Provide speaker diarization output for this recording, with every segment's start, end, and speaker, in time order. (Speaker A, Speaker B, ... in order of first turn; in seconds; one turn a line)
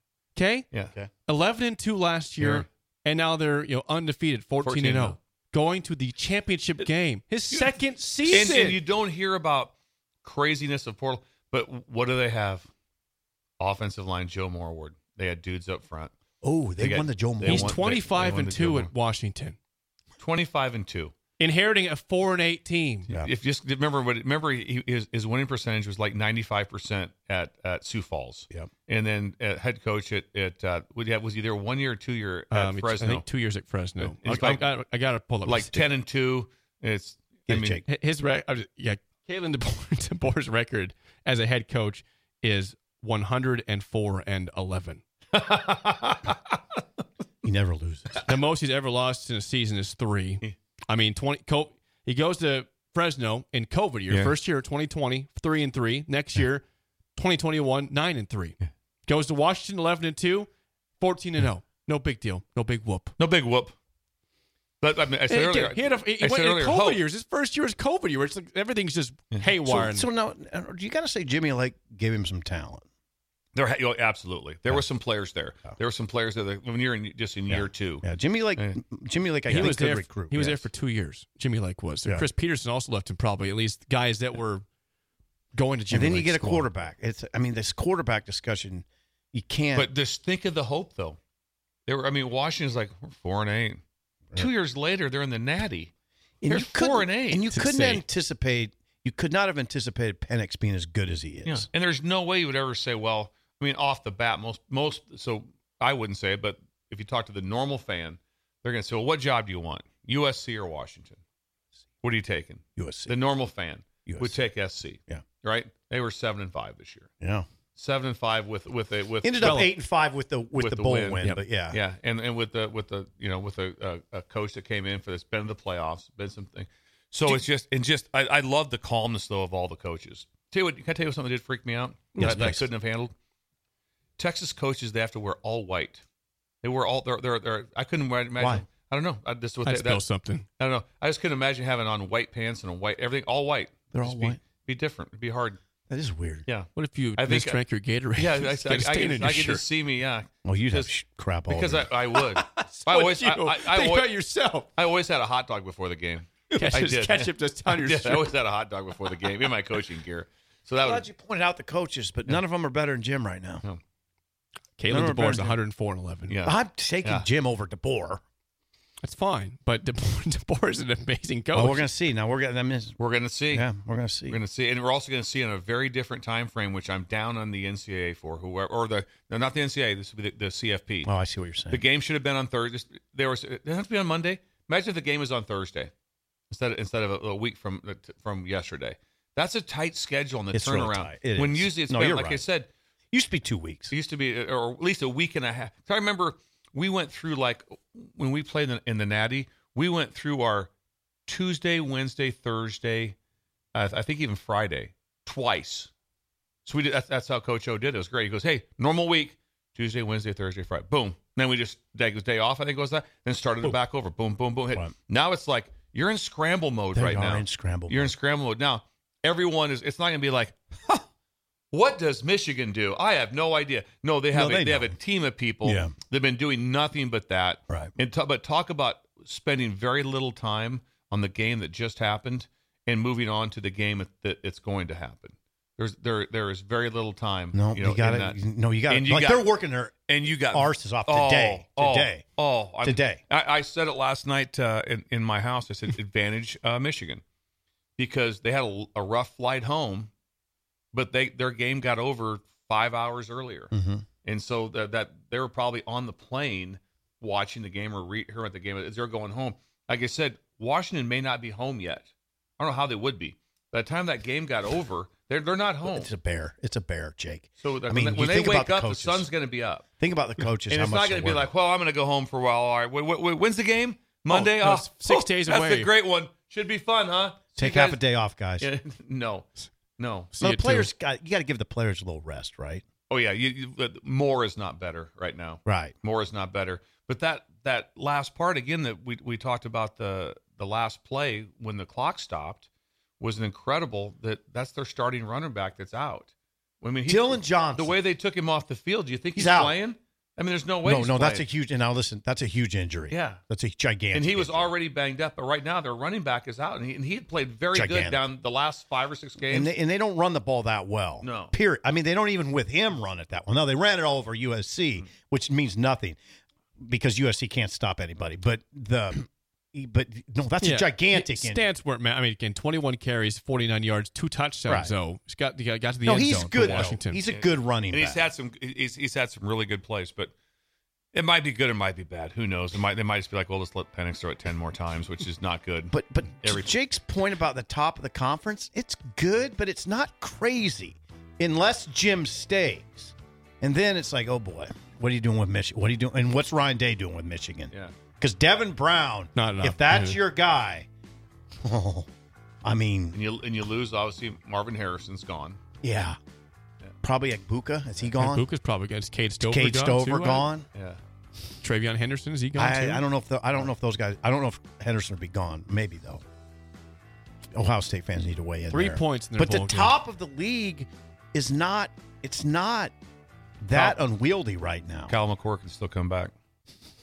Speaker A: 0.3-0.7
Speaker A: 1.3-8.8
Speaker B: 2.4-2.6
Speaker B: 4.6-5.2
Speaker B: 8.3-12.7
Speaker B: 13.6-16.1
Speaker C: 16.4-17.8
Speaker B: 16.8-18.9
Speaker A: 17.4-19.6
Speaker B: 20.2-21.1
Speaker A: 21.4-23.1
Speaker B: 23.2-33.2
Speaker A: 32.5-35.8
Speaker B: 34.0-34.6
Speaker B: 35.4-37.8
Speaker C: 37.5-37.8
Speaker A: 37.9-45.0
Speaker B: 45.3-46.5
Speaker C: 47.4-48.2
Speaker A: 48.2-56.6
Speaker A: 57.1-60.5
Speaker A: 61.0-63.1
Speaker B: 63.2-63.7
Speaker B: 64.8-67.0
Speaker A: 65.3-70.1
Speaker C: 69.6-72.8
Speaker B: 73.5-78.0
Speaker C: 77.5-80.7
Speaker A: 79.5-84.6
Speaker A: 85.5-86.7
Speaker C: 85.9-89.9
Speaker B: 89.7-91.2
Speaker B: 91.9-93.8
Speaker B: 94.3-95.9
Speaker C: 96.4-101.7
Speaker B: 96.5-97.8
Speaker A: 97.5-98.0
Speaker B: 101.5-111.2
Speaker B: 112.0-117.1
Speaker C: 112.8-113.1
Speaker C: 114.0-114.4
Speaker C: 117.2-117.5
Speaker B: 117.8-119.7
Speaker C: 119.2-121.8
Speaker A: 119.4-119.7
Speaker B: 120.5-133.1
Speaker A: 132.1-132.5
Speaker C: 132.2-132.7
Speaker B: 134.2-136.0
Speaker B: 136.6-140.0
Speaker C: 138.4-138.7
Speaker A: 139.6-140.4
Speaker B: 140.6-145.6
Speaker C: 143.9-144.4
Speaker C: 145.9-146.4
Speaker B: 146.5-147.6
Speaker A: 146.8-149.6
Speaker B: 148.2-150.9
Speaker C: 150.4-151.9
Speaker B: 151.5-154.1
Speaker A: 152.3-154.7
Speaker B: 154.8-161.1
Speaker A: 156.5-158.3
Speaker C: 160.8-163.6
Speaker A: 164.8-166.3
Speaker C: 164.9-165.6
Speaker B: 166.3-167.2
Speaker C: 166.4-168.2
Speaker A: 169.0-171.9
Speaker C: 171.5-173.0
Speaker B: 173.0-173.7
Speaker C: 173.5-174.4
Speaker B: 174.3-181.1
Speaker C: 181.1-181.8
Speaker B: 181.7-185.9
Speaker B: 186.5-192.7
Speaker C: 190.5-192.4
Speaker C: 193.1-193.9
Speaker B: 193.9-200.7
Speaker B: 201.3-203.2
Speaker B: 203.7-205.9
Speaker B: 206.7-221.0
Speaker C: 216.9-218.1
Speaker B: 221.7-239.5
Speaker C: 224.3-225.0
Speaker C: 225.6-225.9
Speaker C: 237.5-242.3
Speaker B: 240.1-247.2
Speaker C: 242.8-243.2
Speaker B: 248.0-250.1
Speaker B: 250.9-253.7
Speaker C: 253.7-254.0
Speaker B: 254.2-266.1
Speaker C: 265.8-269.3
Speaker B: 267.6-269.8
Speaker C: 270.0-271.5
Speaker B: 270.7-278.0
Speaker A: 274.3-275.9
Speaker C: 277.6-278.7
Speaker B: 278.6-280.3
Speaker A: 280.3-280.9
Speaker C: 280.4-282.8
Speaker B: 283.1-292.6
Speaker C: 285.6-285.9
Speaker B: 293.2-296.3
Speaker B: 296.8-301.4
Speaker C: 297.1-298.0
Speaker C: 299.3-299.8
Speaker C: 300.8-304.7
Speaker B: 303.1-303.4
Speaker B: 304.1-309.7
Speaker C: 307.7-308.2
Speaker C: 309.4-316.2
Speaker B: 311.2-311.5
Speaker C: 316.8-321.6
Speaker A: 320.6-327.2
Speaker C: 326.1-328.2
Speaker B: 326.5-330.3
Speaker B: 331.1-336.7
Speaker C: 335.9-350.9
Speaker A: 349.4-350.2
Speaker C: 351.6-352.1
Speaker C: 352.6-353.2
Speaker B: 353.1-355.6
Speaker C: 355.8-356.2
Speaker C: 357.0-358.4
Speaker A: 358.1-360.5
Speaker C: 359.4-360.6
Speaker B: 360.7-361.0
Speaker A: 361.6-363.0
Speaker C: 362.6-366.2
Speaker C: 367.5-372.9
Speaker A: 368.7-370.0
Speaker C: 373.6-375.1
Speaker B: 373.7-374.0
Speaker B: 375.1-376.3